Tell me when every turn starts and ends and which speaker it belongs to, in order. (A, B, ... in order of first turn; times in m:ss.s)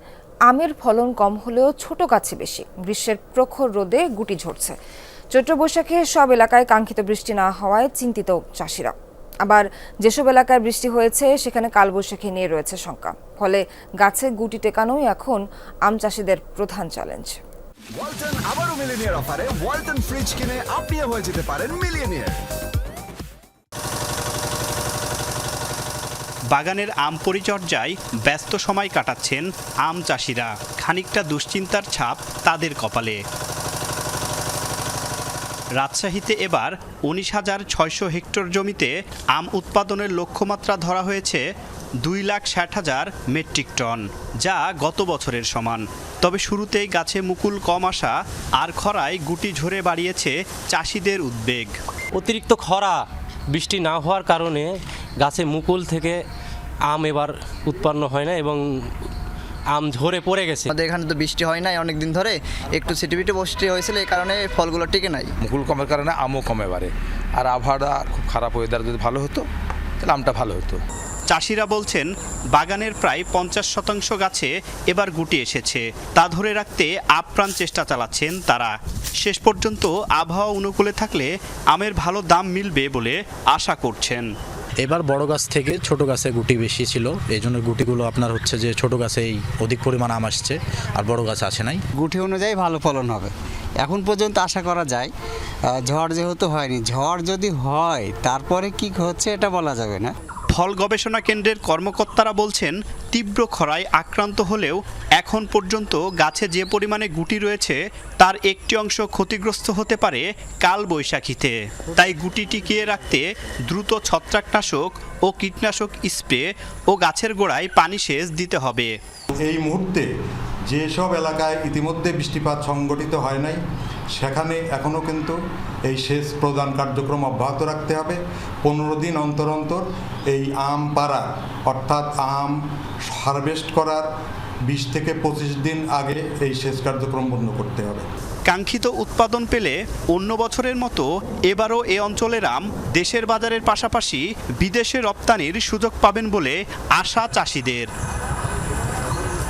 0:00.5-0:04.8 A
0:05.3-0:08.9 A
0:09.4-0:17.4 A
0:18.0-0:22.4 B
0:26.5-0:33.2 C
0:35.8-0:41.4 C
0:42.0-0:51.7 C
0:52.2-0:56.2 D
0:56.9-0:58.6 D
0:59.7-1:00.7 D
1:00.7-1:05.3 E
1:05.4-1:09.5 F
1:10.0-1:10.8 F
1:11.3-1:24.3 C
1:24.8-1:31.8 G
1:31.9-1:35.1 H
1:35.6-1:40.2 H
1:40.5-1:58.9 C
1:59.4-2:00.0 I
2:00.6-2:03.6 I
2:04.1-2:14.0 I
2:14.7-2:18.1 I
2:18.5-2:27.9 C